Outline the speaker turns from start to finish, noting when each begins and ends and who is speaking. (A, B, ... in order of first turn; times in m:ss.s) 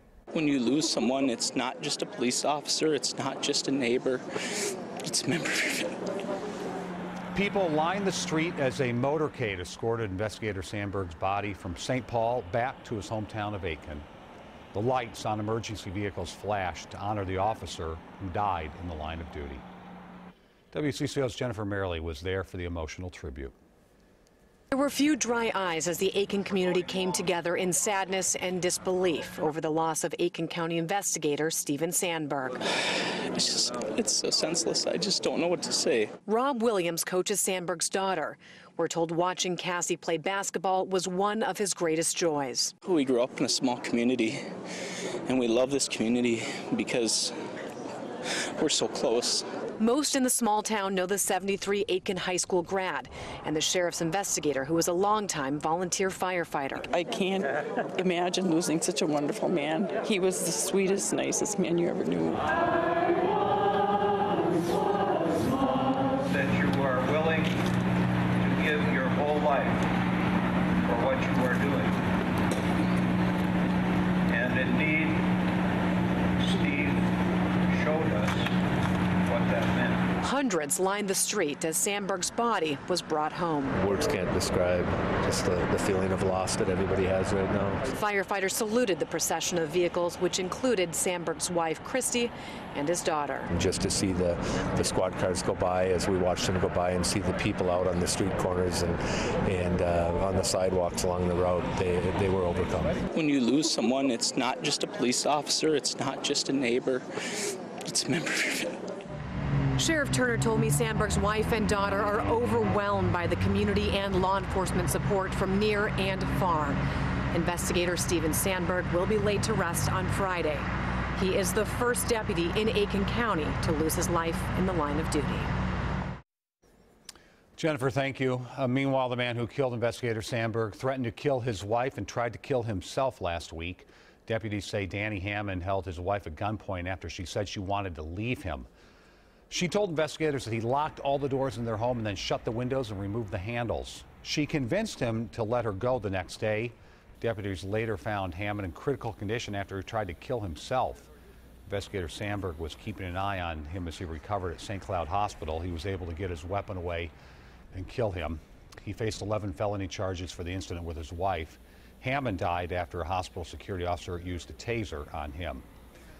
0:00.3-0:04.2 A
0:05.0-0:05.9 A
0:07.3-0:14.0 B
0:14.7-0:19.6 B
0:20.7-0:23.5 B
0:24.7-0:32.6 C
0:33.4-0:36.1 A
0:36.2-0:42.7 C
0:42.8-0:44.4 A
0:45.2-0:47.3 A
0:48.6-0:49.4 A
0:49.8-0:56.9 C
0:56.9-1:02.4 D
1:05.9-1:07.6 E
1:08.4-1:09.9 E
1:10.8-1:12.0 E
1:14.3-1:15.3 E
1:16.4-1:17.1 E
1:17.7-1:18.5 E
1:19.2-1:20.1 E
1:20.2-1:23.8 C
1:23.8-1:27.8 F
1:27.9-1:33.5 C
1:33.5-1:43.0 F
1:43.1-1:47.0 A
1:47.8-1:48.8 A
1:49.8-1:56.8 C
1:57.3-2:00.6 C
2:01.2-2:05.5 C
2:07.6-2:18.7 B
2:19.5-2:31.0 B
2:31.7-2:37.1 B
2:37.7-2:45.6 B